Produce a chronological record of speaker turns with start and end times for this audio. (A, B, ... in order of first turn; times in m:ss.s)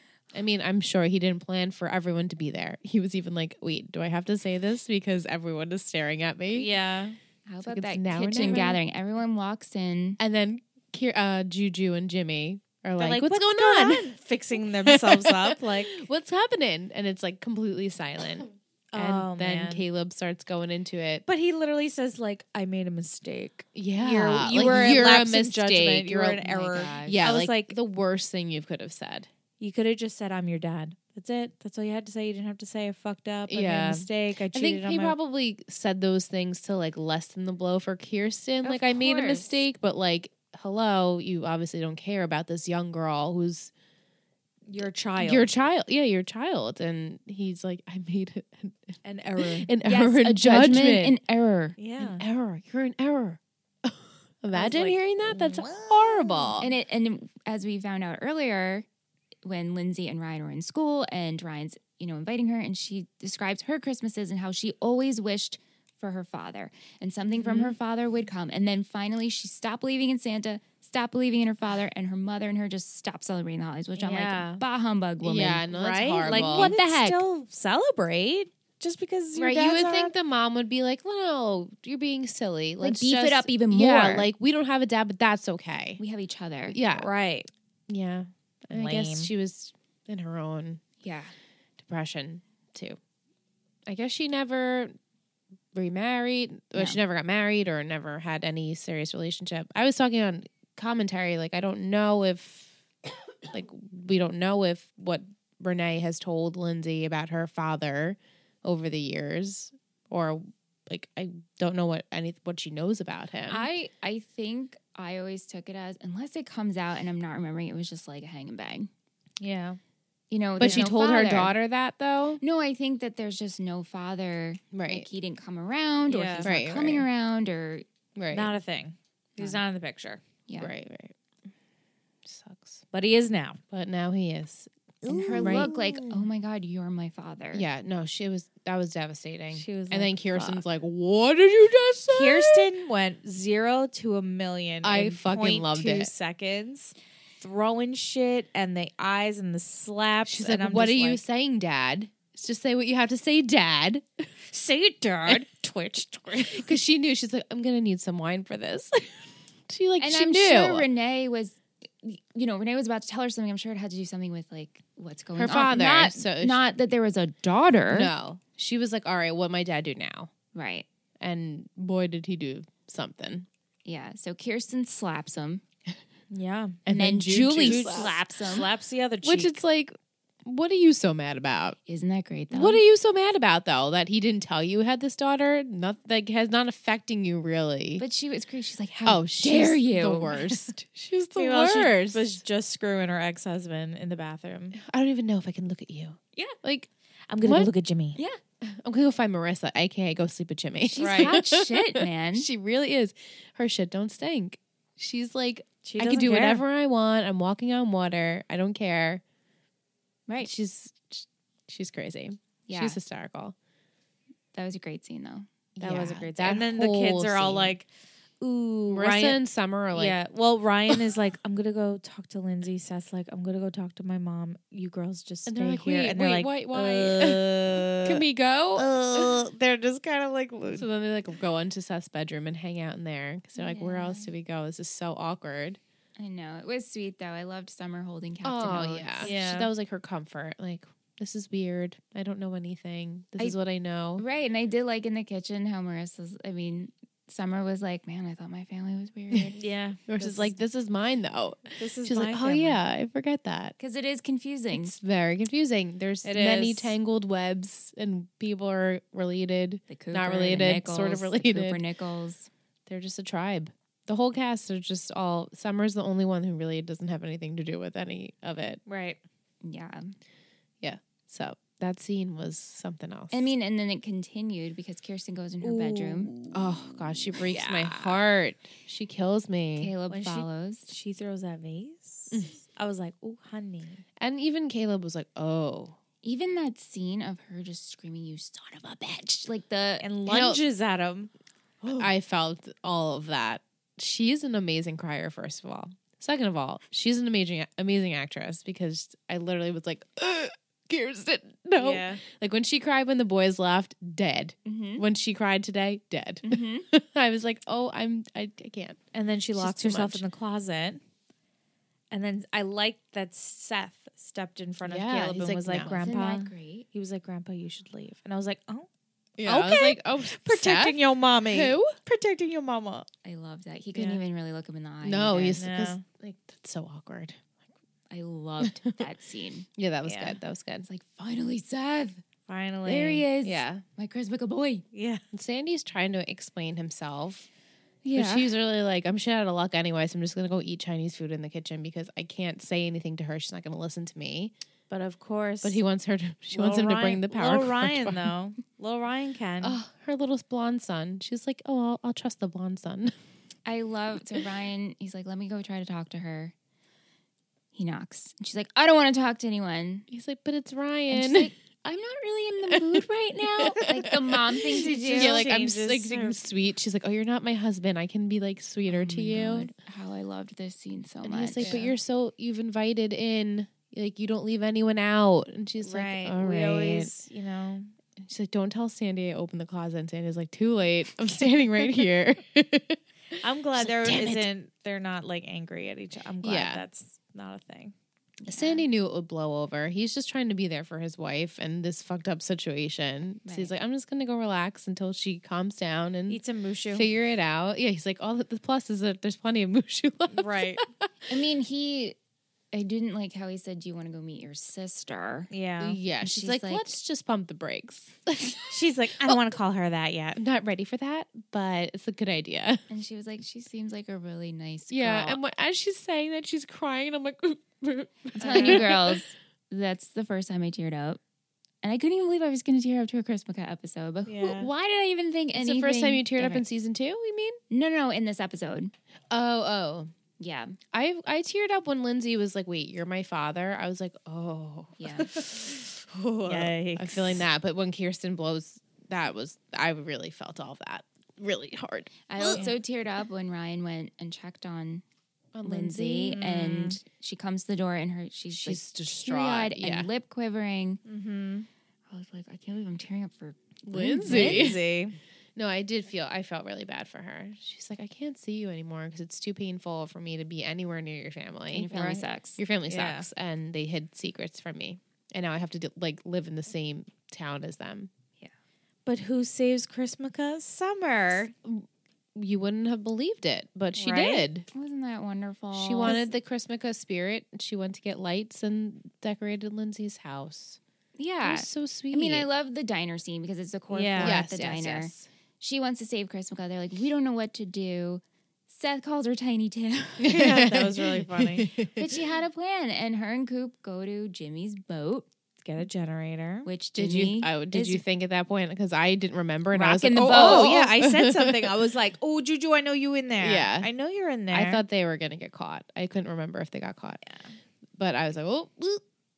0:00.3-0:06.7 A
0:06.5-0:07.2 B
0:07.5-0:10.2 C
0:07.6-0:08.8 A
0:10.2-0:21.2 A
0:13.0-0:16.0 B
0:18.9-0:19.8 B
0:21.3-0:27.8 B
0:23.8-0:29.3 A
0:24.6-0:25.0 C
0:26.5-0:27.2 C
0:29.6-0:35.2 B
0:33.5-0:43.7 A
0:38.6-0:39.6 C
0:44.7-0:45.5 B
0:45.2-0:51.2 A
0:49.0-0:49.7 B
0:49.8-0:51.8 C
0:51.8-0:52.2 B
0:52.0-0:56.7 A
0:54.5-0:56.6 B
0:56.6-0:58.9 C
0:59.4-1:15.7 C
1:14.0-1:14.6 B
1:15.2-1:16.7 A
1:15.7-1:20.1 B
1:16.2-1:17.2 C
1:19.4-1:26.0 A
1:22.8-1:24.3 C
1:26.0-1:26.8 C
1:26.7-1:27.1 A
1:27.0-1:27.5 B
1:27.9-1:30.8 A
1:28.7-1:29.3 B
1:31.0-1:31.3 C
1:31.8-1:33.0 A
1:33.9-1:34.9 A
1:35.7-1:42.8 A
1:36.7-1:37.0 C
1:43.5-1:53.7 A
1:53.5-1:58.9 C
1:59.4-1:59.8 B
2:00.3-2:01.5 C
2:00.6-2:02.4 A
2:02.4-2:07.8 C
2:04.7-2:05.1 A
2:06.1-2:06.5 B
2:06.4-2:07.1 A
2:08.2-2:08.5 A
2:08.3-2:10.2 B
2:10.5-2:10.7 C
2:10.6-2:11.1 A
2:12.2-2:12.8 A
2:12.9-2:13.6 B
2:13.7-2:14.7 A
2:15.0-2:16.3 B
2:15.1-2:17.6 C
2:15.3-2:15.7 A
2:17.5-2:22.7 A
2:19.5-2:20.6 B
2:22.1-2:31.2 B
2:24.8-2:26.1 A
2:30.2-2:34.3 A
2:34.5-2:36.8 B
2:36.5-2:40.9 A
2:40.0-2:48.1 C
2:45.4-2:46.6 A
2:47.9-2:50.3 A
2:50.5-2:50.9 C
2:51.2-2:53.5 A
2:53.8-2:55.6 C
2:56.3-2:56.8 B
2:56.9-2:58.1 A
2:56.9-2:58.7 C
2:57.6-2:59.6 B
2:59.2-3:01.8 A
3:01.9-3:02.8 C
3:02.5-3:08.0 A
3:08.0-3:10.3 C
3:09.0-3:12.4 A
3:11.4-3:14.8 B
3:14.8-3:16.9 A
3:17.3-3:18.2 B
3:17.4-3:17.7 A
3:18.6-3:29.2 A
3:20.8-3:22.5 C
3:21.0-3:21.3 B
3:25.8-3:26.6 B
3:30.4-3:33.6 A
3:32.7-3:33.0 C
3:34.5-3:35.5 C
3:35.8-3:37.8 A
3:35.8-3:37.9 B
3:38.4-3:39.4 B
3:38.9-3:40.2 A
3:39.9-3:48.2 B
3:45.5-3:49.4 A
3:48.8-3:50.9 B
3:50.7-3:55.8 A
3:53.6-3:54.3 C
3:56.2-3:59.3 C
3:58.4-4:04.2 A
3:59.2-3:59.7 B
4:04.2-4:09.7 C
4:09.6-4:10.5 B
4:10.1-4:13.8 A
4:11.8-4:12.8 B
4:13.8-4:15.0 C
4:14.7-4:21.8 A
4:16.2-4:17.0 B
4:19.9-4:22.5 C
4:22.9-4:28.8 A
4:28.9-4:29.2 B
4:29.6-4:30.1 C
4:30.8-4:33.5 A
4:33.3-4:36.3 C
4:35.6-4:36.6 B
4:36.5-4:39.9 A
4:37.4-4:38.2 B
4:39.8-4:40.9 C
4:40.1-4:44.0 B
4:44.2-4:46.0 A
4:46.2-4:50.1 C
4:50.0-4:51.3 B
4:50.3-4:50.6 A
4:51.8-4:52.1 B
4:51.9-5:09.0 A
5:01.8-5:02.2 B
5:04.6-5:05.0 C
5:06.4-5:06.9 C
5:09.1-5:11.0 B
5:09.6-5:10.2 A
5:12.1-5:18.9 B
5:14.8-5:16.0 A
5:16.0-5:16.9 C
5:19.4-5:22.0 A
5:19.4-5:23.1 B
5:23.2-5:25.6 C
5:25.0-5:27.4 A
5:25.6-5:26.0 B
5:28.1-5:29.7 C
5:28.6-5:28.9 A
5:29.8-5:30.9 A
5:30.0-5:30.4 B
5:30.8-5:32.2 C
5:32.5-5:33.2 B
5:32.9-5:34.8 C
5:33.3-5:33.8 A
5:34.9-5:35.2 B
5:35.3-5:37.5 A
5:38.0-5:38.5 C
5:38.1-5:44.5 A
5:44.9-5:45.8 B
5:45.6-5:48.3 A
5:46.5-5:49.8 B
5:49.6-5:53.1 A
5:53.7-5:56.5 C
5:57.7-6:00.1 C
6:00.1-6:01.5 A
6:01.1-6:05.4 C
6:02.7-6:03.0 A
6:03.6-6:09.7 A
6:04.6-6:06.4 B
6:08.9-6:11.9 C
6:11.2-6:17.1 A
6:11.6-6:11.8 B
6:15.8-6:17.9 B
6:18.2-6:23.0 A
6:23.4-6:27.9 B
6:23.8-6:24.5 A
6:26.4-6:26.8 A
6:28.4-6:28.8 C
6:28.5-6:41.1 A
6:33.4-6:33.7 C
6:36.3-6:37.1 B
6:40.3-6:40.8 B
6:41.3-6:42.2 C
6:42.7-6:45.5 C
6:45.5-6:46.0 B
6:45.8-6:49.4 A
6:46.2-6:46.9 C
6:48.7-6:50.4 B
6:50.4-6:52.8 A
6:52.9-6:55.4 C
6:54.9-6:59.2 A
6:58.4-7:01.2 C
6:58.4-6:58.8 B
7:01.8-7:06.6 C
7:04.3-7:04.7 B
7:05.6-7:07.6 A
7:07.7-7:08.9 C
7:09.3-7:10.1 A
7:10.4-7:10.8 C
7:10.9-7:15.7 A
7:15.0-7:15.3 C
7:15.2-7:17.4 B
7:16.4-7:22.6 A
7:22.3-7:25.0 C
7:25.5-7:26.5 A
7:25.6-7:31.0 C
7:26.4-7:27.0 B
7:28.5-7:30.1 A
7:31.1-7:31.7 B
7:32.1-7:34.8 C
7:33.9-7:34.8 A
7:34.2-7:35.2 B
7:35.6-7:48.1 A
7:41.7-7:42.6 C
7:42.9-7:43.3 B
7:49.1-7:51.5 B
7:51.6-7:54.7 A
7:54.0-7:54.5 B
7:54.7-7:56.3 C
7:55.7-8:00.8 A
8:01.2-8:10.4 C
8:01.4-8:02.5 A
8:03.9-8:04.4 B
8:04.2-8:05.3 A
8:10.2-8:12.2 A
8:10.3-8:11.7 B
8:12.0-8:15.3 C
8:15.6-8:16.7 B
8:16.6-8:18.0 C
8:17.0-8:21.7 A
8:19.7-8:20.7 C
8:20.2-8:24.8 B
8:23.4-8:23.9 A
8:24.5-8:27.2 A
8:27.3-8:27.5 B
8:28.0-8:29.0 A